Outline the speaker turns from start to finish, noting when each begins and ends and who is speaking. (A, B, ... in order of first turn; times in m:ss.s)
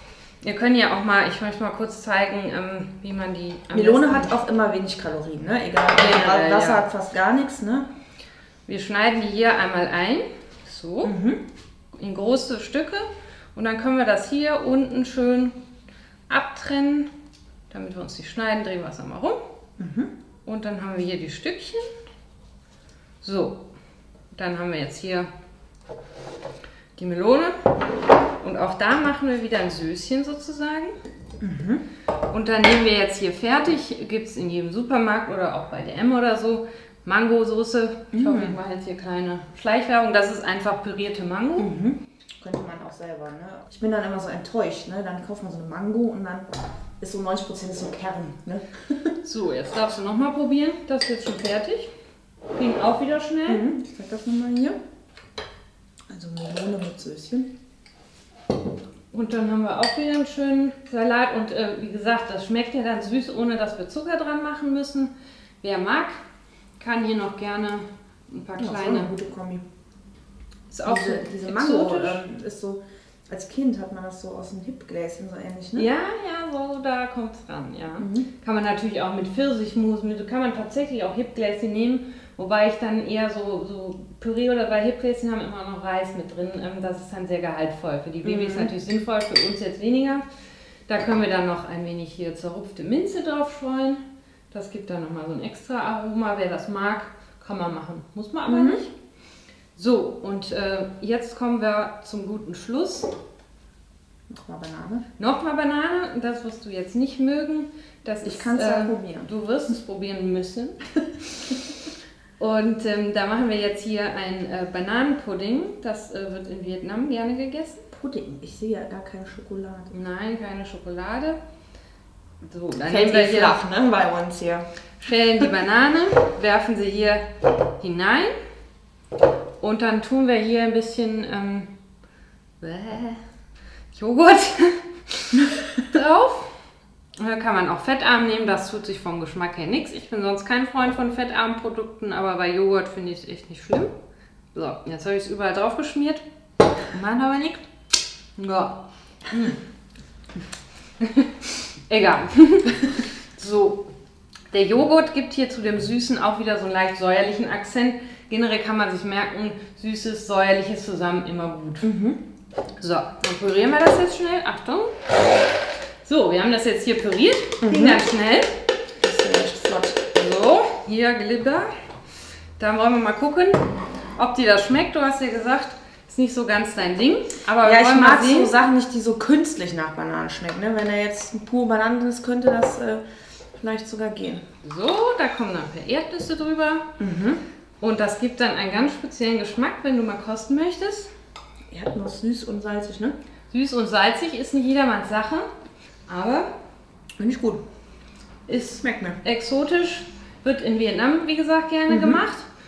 0:00.4-0:04.3 A
0:03.7-0:07.9 B
0:05.9-0:06.8 A
0:08.7-0:11.1 A
0:11.0-0:11.4 B
0:11.9-0:15.6 A
0:16.3-0:17.1 A
0:17.7-0:19.4 A
0:19.8-0:20.1 B
0:20.4-0:21.9 A
0:23.2-0:23.7 A
0:24.3-0:25.3 A
0:27.0-0:27.7 A
0:28.4-0:30.9 A
0:31.4-0:31.8 B
0:32.3-0:41.7 A
0:38.1-0:38.6 B
0:41.6-0:46.5 B
0:47.0-0:49.1 B
0:49.2-0:51.9 A
0:52.5-0:53.6 A
0:53.5-0:54.8 B
0:56.1-0:57.5 B
0:59.1-1:05.1 A
1:05.6-1:06.2 A
1:06.8-1:09.1 A
1:08.6-1:09.6 B
1:10.7-1:12.2 A
1:10.8-1:15.9 B
1:15.8-1:30.2 A
1:18.0-1:18.3 B
1:28.2-1:28.7 B
1:30.9-1:38.9 A
1:38.5-1:38.8 B
1:39.8-1:43.1 A
1:44.3-1:45.0 B
1:45.2-1:50.8 A
1:48.2-1:49.3 B
1:52.4-1:57.8 A
1:57.9-1:59.9 B
1:59.9-2:01.4 A
2:02.4-2:03.6 A
2:02.8-2:04.7 B
2:05.0-2:07.2 A
2:07.8-2:08.3 A
2:09.6-2:11.7 A
2:12.6-2:13.2 A
2:13.9-2:16.6 A
2:17.2-2:23.9 A
2:24.5-2:26.2 A
2:26.9-2:27.7 A
2:28.4-2:29.6 A
2:31.0-2:33.9 A
2:34.5-2:41.9 A
2:41.8-2:42.2 B
2:42.8-2:44.9 A
2:46.0-2:48.6 A
2:47.6-2:48.0 B
2:49.0-2:50.0 B
2:50.1-2:51.7 A
2:52.6-2:58.5 A
2:57.6-3:03.0 B
3:03.6-3:04.4 B
3:04.6-3:06.9 A
3:07.0-3:07.4 B
3:07.8-3:11.1 A
3:11.7-3:13.2 B
3:13.5-3:15.4 A
3:16.1-3:16.5 A
3:17.2-3:17.6 B
3:18.5-3:22.5 A
3:18.8-3:19.2 B
3:21.9-3:22.2 B